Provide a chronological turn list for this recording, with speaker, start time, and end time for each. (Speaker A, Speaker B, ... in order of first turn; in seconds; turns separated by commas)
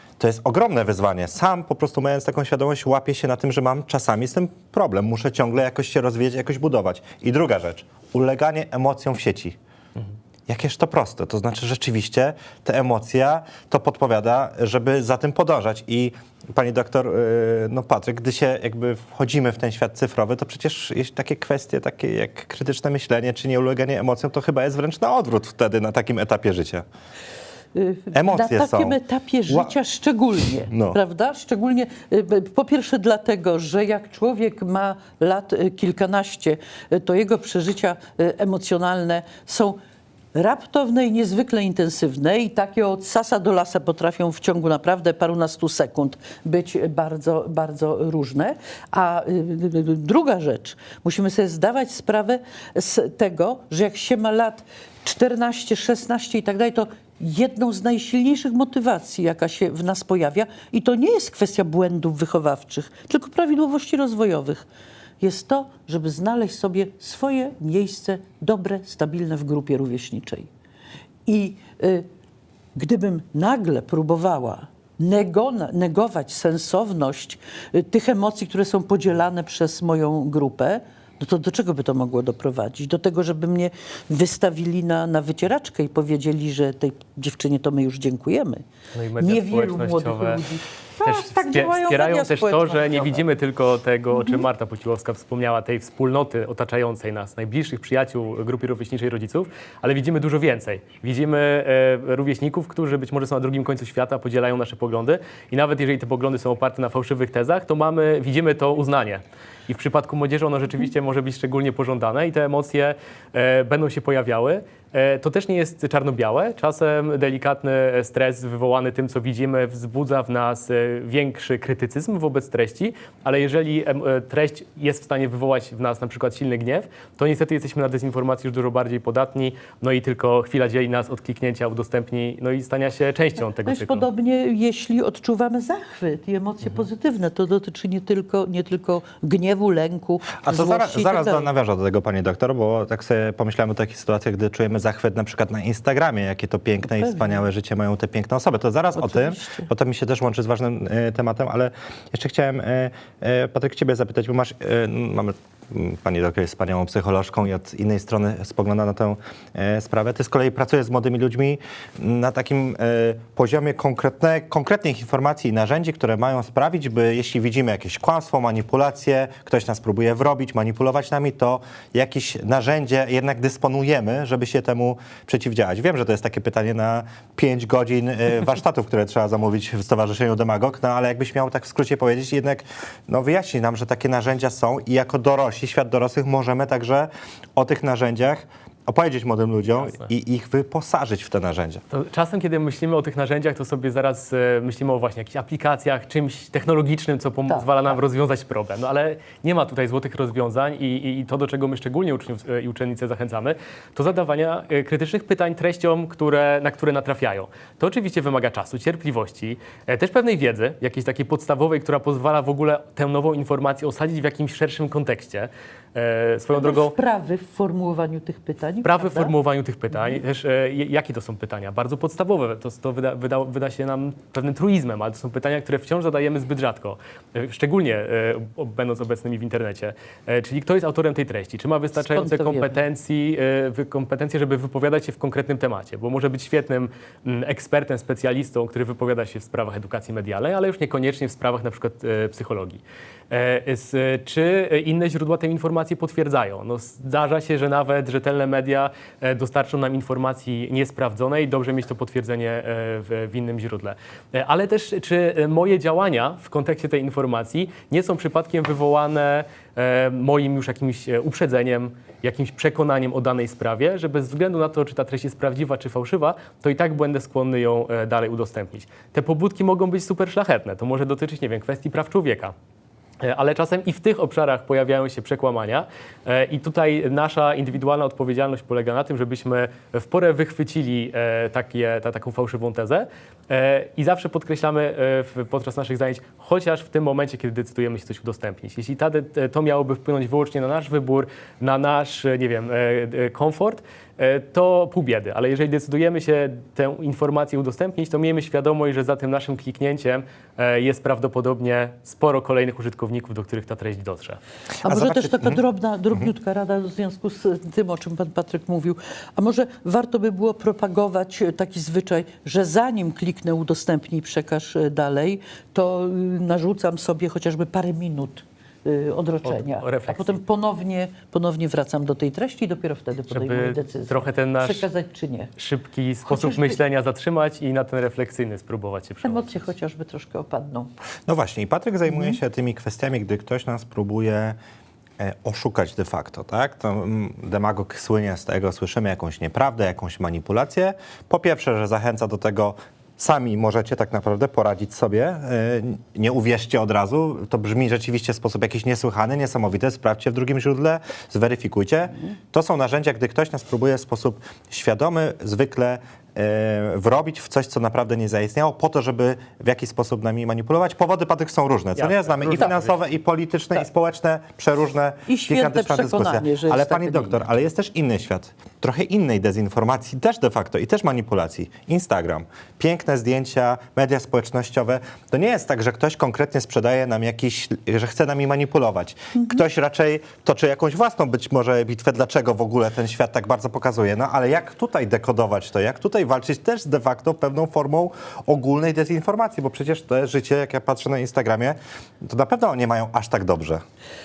Speaker A: 0.2-9.6, Speaker A: 10.5-26.9, Speaker B: 27.8-39.8, Speaker A: 28.1-29.7, Speaker A: 30.7-31.0, Speaker B: 40.3-64.7, Speaker B: 65.2-70.5, Speaker B: 71.3-72.0, Speaker B: 72.8-88.6, Speaker C: 89.0-90.4, Speaker B: 89.2-93.2, Speaker C: 91.0-134.1, Speaker B: 133.6-141.5, Speaker A: 140.4-191.8, Speaker B: 146.8-147.4, Speaker B: 149.0-149.7, Speaker C: 189.7-190.1, Speaker C: 191.9-216.9, Speaker B: 197.5-198.0, Speaker B: 216.6-219.3, Speaker C: 218.8-272.5, Speaker B: 219.9-220.2, Speaker B: 232.0-232.8, Speaker C: 273.2-304.4, Speaker A: 304.8-305.6, Speaker B: 304.8-325.5, Speaker C: 319.4-320.4, Speaker C: 323.3-324.9, Speaker C: 325.6-329.7, Speaker B: 326.3-326.8, Speaker B: 329.2-330.9, Speaker A: 331.3-334.6, Speaker B: 332.1-332.4, Speaker A: 335.2-393.8, Speaker C: 362.0-363.0, Speaker B: 365.3-367.5